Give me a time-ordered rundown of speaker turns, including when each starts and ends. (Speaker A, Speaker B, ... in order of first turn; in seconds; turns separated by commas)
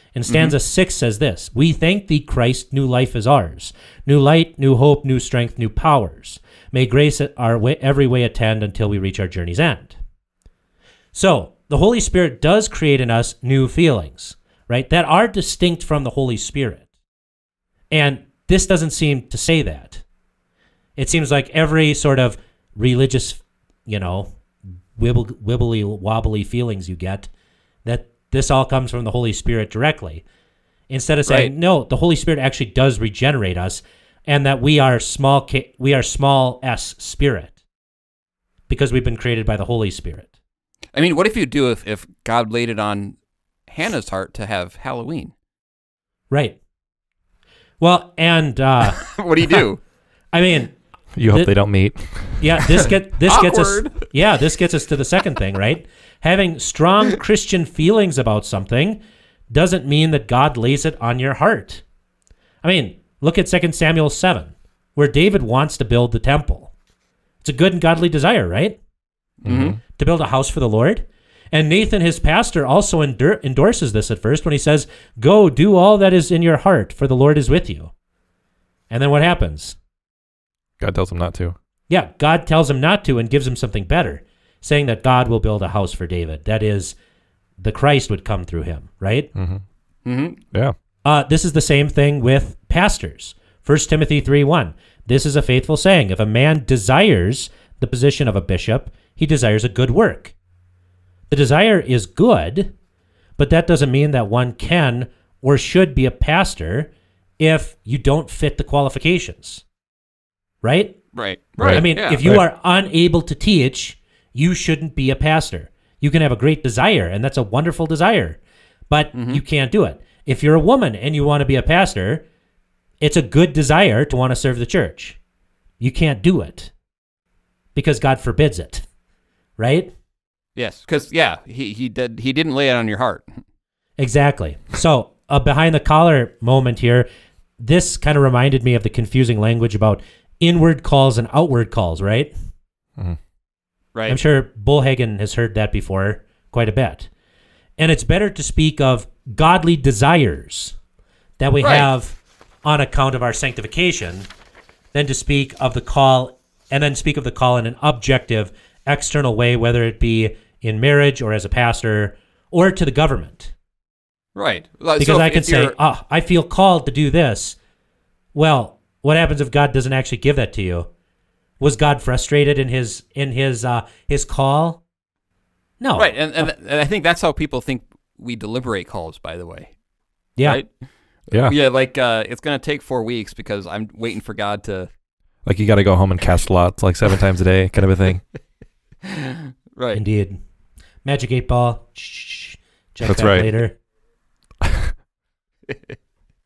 Speaker A: 0.1-10.0, Speaker B: 0.3-0.5, Speaker A: 11.1-16.9, Speaker A: 17.9-20.0, Speaker A: 21.0-24.3, Speaker A: 25.0-27.3, Speaker A: 27.9-30.2, Speaker A: 30.9-37.5, Speaker A: 38.7-40.3, Speaker B: 41.0-43.2, Speaker B: 43.7-45.3, Speaker A: 46.3-46.6, Speaker A: 47.8-49.0, Speaker B: 49.0-49.8, Speaker A: 50.3-50.8, Speaker C: 51.1-52.6, Speaker A: 52.4-59.0, Speaker B: 53.3-54.0, Speaker A: 59.5-61.8, Speaker A: 62.6-66.7, Speaker A: 67.4-68.8, Speaker B: 69.4-69.8, Speaker C: 69.5-69.8, Speaker A: 70.0-77.9, Speaker A: 78.9-79.8, Speaker C: 80.8-81.5, Speaker A: 81.9-87.0, Speaker A: 87.6-89.3, Speaker C: 89.3-89.6, Speaker B: 90.0-90.4, Speaker A: 91.0-100.3, Speaker A: 101.3-102.7, Speaker A: 103.4-109.6, Speaker A: 110.6-111.0, Speaker B: 111.1-112.2, Speaker C: 111.6-112.4, Speaker A: 111.7-118.4, Speaker A: 118.9-122.2, Speaker B: 119.1-119.4, Speaker A: 123.0-125.2, Speaker A: 125.8-126.7, Speaker A: 127.8-128.8, Speaker A: 129.6-129.9, Speaker B: 130.6-133.4, Speaker A: 134.0-137.1, Speaker A: 137.6-142.3, Speaker A: 144.1-147.1, Speaker A: 147.8-150.8, Speaker A: 151.4-154.3, Speaker B: 151.6-151.9, Speaker A: 154.9-163.5, Speaker B: 164.3-165.7, Speaker A: 165.0-167.6, Speaker A: 168.3-170.9, Speaker A: 171.6-174.8, Speaker A: 175.8-176.5, Speaker B: 176.0-179.7, Speaker B: 180.4-180.7, Speaker B: 181.4-184.9, Speaker C: 185.5-188.2, Speaker B: 189.1-190.0, Speaker A: 189.9-190.4, Speaker A: 191.1-193.8, Speaker C: 193.0-193.5, Speaker C: 194.6-194.9, Speaker B: 195.7-195.9